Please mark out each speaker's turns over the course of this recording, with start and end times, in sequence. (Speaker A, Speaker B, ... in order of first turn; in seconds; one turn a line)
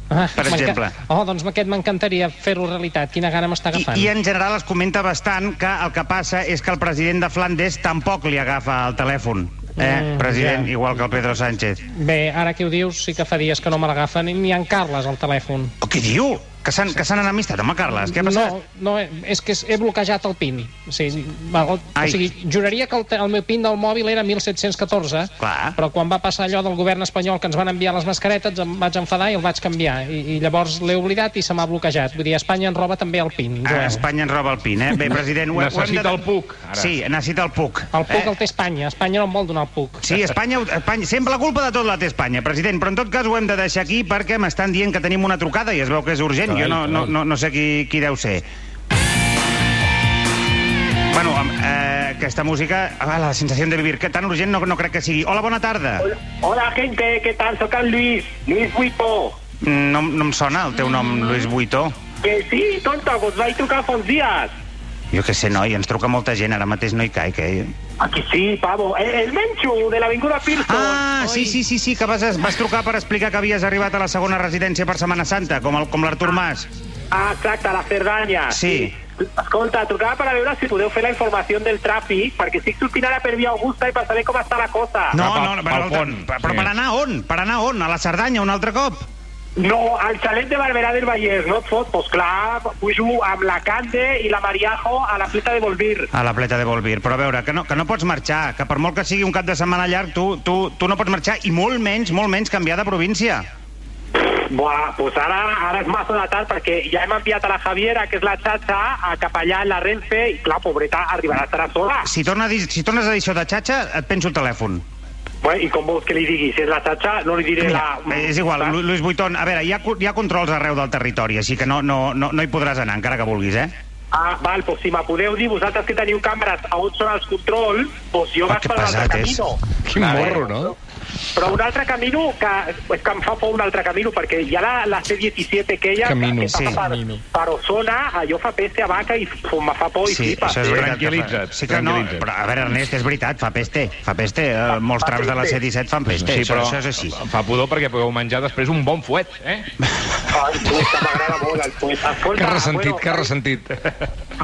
Speaker A: 0.1-4.1
Speaker B: 0.4-0.9
Speaker B: 3.7-11.8
Speaker A: 9.8-10.7
Speaker A: 11.9-15.7
Speaker B: 15.8-18.6
Speaker A: 18.1-34.0
Speaker B: 22.0-22.2
Speaker B: 25.4-25.8
Speaker B: 33.6-36.2
Speaker C: 35.5-36.9
Speaker B: 36.7-38.3
Speaker A: 37.9-40.1
Speaker B: 40.0-48.5
Speaker B: 51.1-56.1
Speaker D: 56.4-59.4
Speaker B: 59.6-62.0
Speaker D: 62.2-64.5
Speaker B: 65.1-67.7
Speaker D: 68.0-71.0
Speaker B: 70.7-76.7
Speaker D: 77.1-78.9
Speaker B: 78.5-78.9
Speaker D: 79.4-85.2
Speaker B: 85.1-89.0
Speaker C: 85.2-86.2
Speaker D: 89.6-96.1
Speaker B: 96.1-103.5
Speaker D: 104.4-112.1
Speaker B: 112.0-114.8
Speaker D: 115.4-118.7
Speaker B: 117.6-123.7
Speaker D: 124.1-129.6
Speaker B: 128.5-129.4
Speaker E: 129.9-130.8
Speaker B: 130.0-130.4
Speaker D: 130.5-130.7
Speaker D: 131.4-140.7
Speaker E: 136.0-137.2
Speaker B: 136.5-136.8
Speaker B: 140.1-147.2
Speaker C: 140.7-142.2
Speaker D: 145.0-145.6
Speaker C: 146.1-149.7
Speaker D: 150.3-153.3
Speaker E: 152.3-153.8